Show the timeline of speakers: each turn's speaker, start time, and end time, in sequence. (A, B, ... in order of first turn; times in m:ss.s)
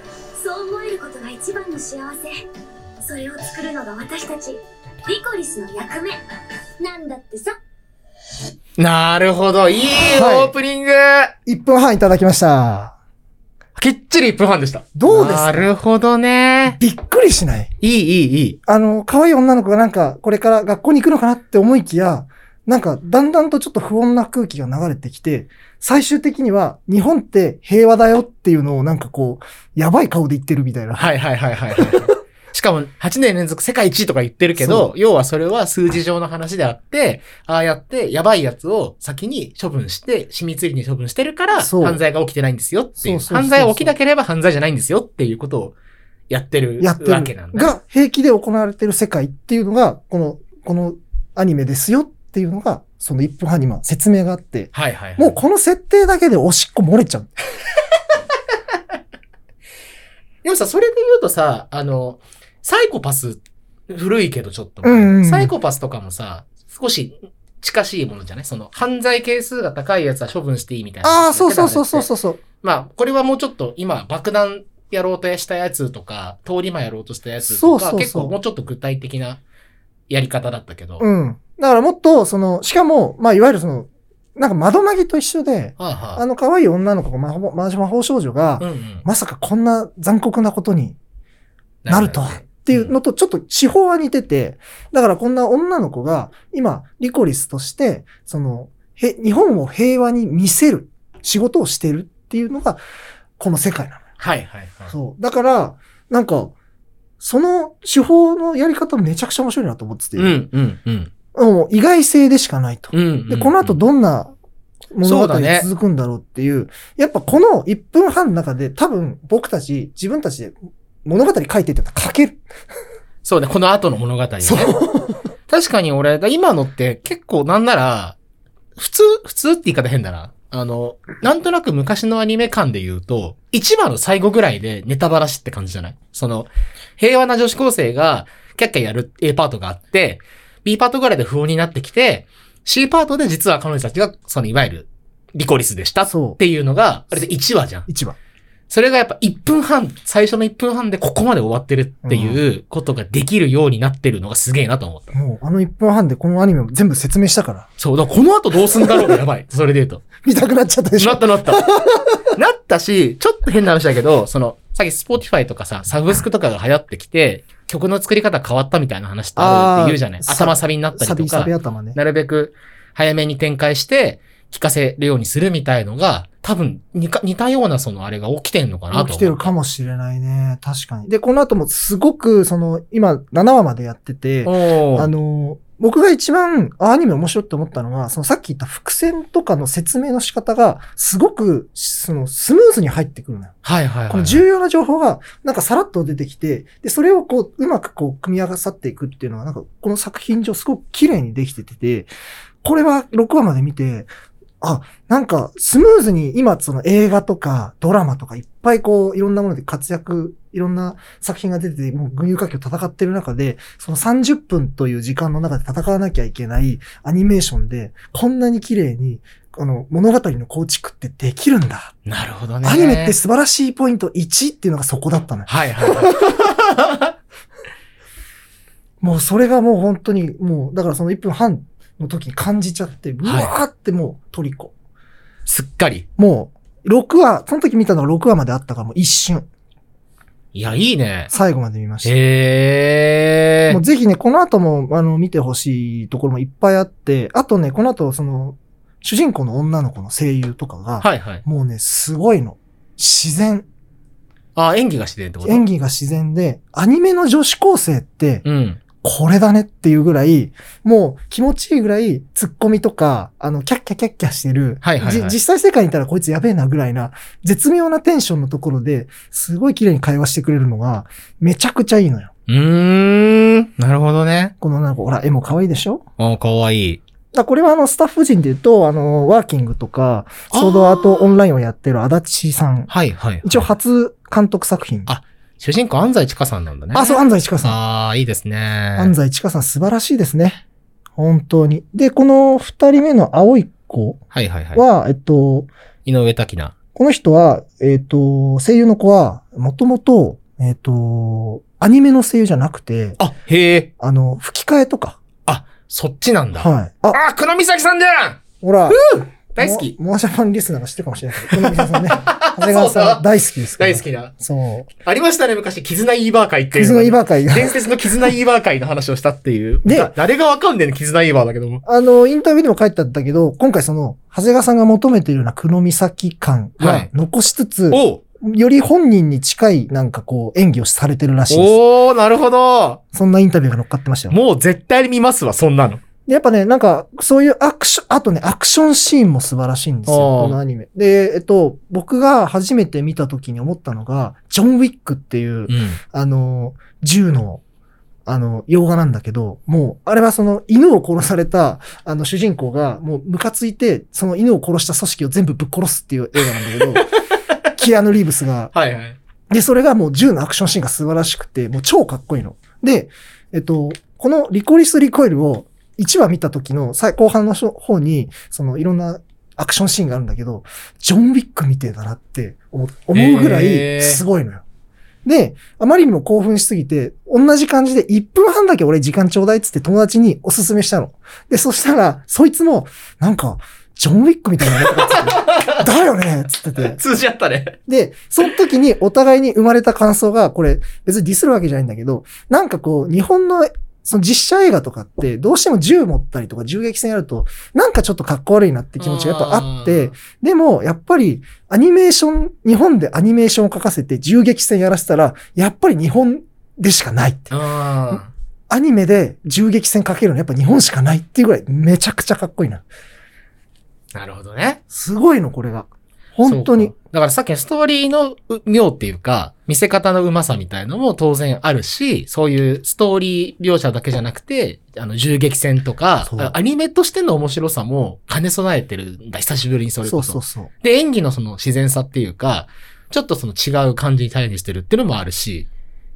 0:00.3-0:02.3 A
0:03.0-0:06.2 A
0:06.8-0:07.6 A
0:08.8-0:11.3 B
0:10.0-0:10.5 C
0:11.4-0:12.9 C
0:13.8-0:16.8 B
0:14.9-0:15.8 C
0:16.6-0:17.7 C
0:17.8-0:18.6 B
0:18.6-0:31.0 C
0:30.9-0:45.8 B
0:31.7-0:32.1 C
0:34.6-0:34.9 C
0:41.5-0:42.0 C
0:43.0-0:43.9 C
0:46.3-0:47.7 B
0:46.8-0:57.3 C
0:54.7-0:55.4 B
0:57.8-0:58.8 B
1:00.4-1:19.4 B
1:04.8-1:05.5 C
1:11.0-1:12.4 C
1:17.5-1:18.4 C
1:20.1-1:21.0 B
1:21.0-1:31.0 C
1:25.8-1:26.2 B
1:28.6-1:29.0 B
1:31.8-1:33.0 B
1:31.9-1:42.8 C
1:43.4-1:44.0 C
1:44.2-1:44.9 B
1:44.9-1:46.5 C
1:47.2-1:50.5 C
1:50.2-1:51.1 B
1:51.3-1:54.3 C
1:52.9-1:53.8 B
1:54.9-2:02.4 C
1:55.0-1:55.7 B
2:03.2-2:04.8 B
2:04.4-2:05.2 C
2:05.5-2:08.2 B
2:08.8-2:27.9 B
2:26.0-2:26.4 C
2:27.9-2:28.2 C
2:28.7-2:35.2 B
2:32.0-2:32.4 C
2:35.1-2:37.7 C
2:37.8-2:40.2 B
2:38.6-2:39.2 C
2:40.2-2:42.3 C
2:41.0-2:59.5 B
2:49.4-2:52.0 C
2:58.9-3:13.5 C
3:04.4-3:05.1 B
3:13.6-3:14.5 B
3:14.1-3:22.1 C
3:22.6-3:24.1 C
3:24.6-3:41.9 C
3:42.0-3:43.2 B
3:42.6-3:46.3 C
3:45.4-3:47.1 B
3:49.0-3:54.7 C
3:53.2-3:53.6 B
3:55.4-3:56.1 B
3:56.2-3:59.5 C
4:00.5-4:01.3 B
4:01.3-4:02.2 C
4:02.0-4:03.8 B
4:03.7-4:13.6 C
4:11.0-4:11.4 B
4:14.5-4:15.7 B
4:15.4-4:18.4 C
4:18.4-4:19.0 B
4:19.0-4:32.3 C
4:24.8-4:25.4 B
4:32.5-4:34.5 B
4:34.6-4:36.0 C
4:36.2-4:37.0 B
4:37.3-4:42.9 C
4:40.5-4:41.4 B
4:42.9-4:43.8 B
4:43.4-4:45.1 C
4:45.0-4:49.2 B
4:46.9-4:47.8 C
4:49.0-4:50.6 C
4:51.2-4:54.2 C
4:54.3-4:54.8 B
4:54.7-4:55.7 C
4:56.0-4:56.8 B
4:56.9-5:03.2 C
5:03.2-5:03.9 B
5:04.0-5:05.2 C
5:05.4-5:10.0 B
5:06.5-5:07.2 C
5:08.6-5:09.0 C
5:09.6-5:14.9 C
5:11.4-5:14.4 B
5:15.0-5:21.8 B
5:16.7-5:18.4 C
5:19.8-5:20.1 C
5:21.8-5:31.8 C
5:26.8-5:27.1 B
5:27.9-5:28.2 B
5:31.5-5:33.0 B
5:33.1-5:34.4 C
5:34.3-5:36.0 B
5:36.2-5:47.6 C
5:40.0-5:40.6 B
5:45.7-5:46.0 B
5:48.3-5:57.1 C
5:56.3-5:57.8 B
5:57.8-5:58.7 C
5:58.7-5:59.2 B
5:59.5-6:14.6 C
6:13.1-6:14.2 B
6:15.2-6:27.0 C
6:24.6-6:27.8 B
6:27.9-6:47.6 C
6:39.0-6:40.2 B
6:47.5-6:48.3 B
6:48.7-6:52.8 C
6:54.1-6:54.8 B
6:54.9-6:56.9 C
6:56.4-7:15.7 B
7:06.2-7:06.6 C
7:10.0-7:10.7 C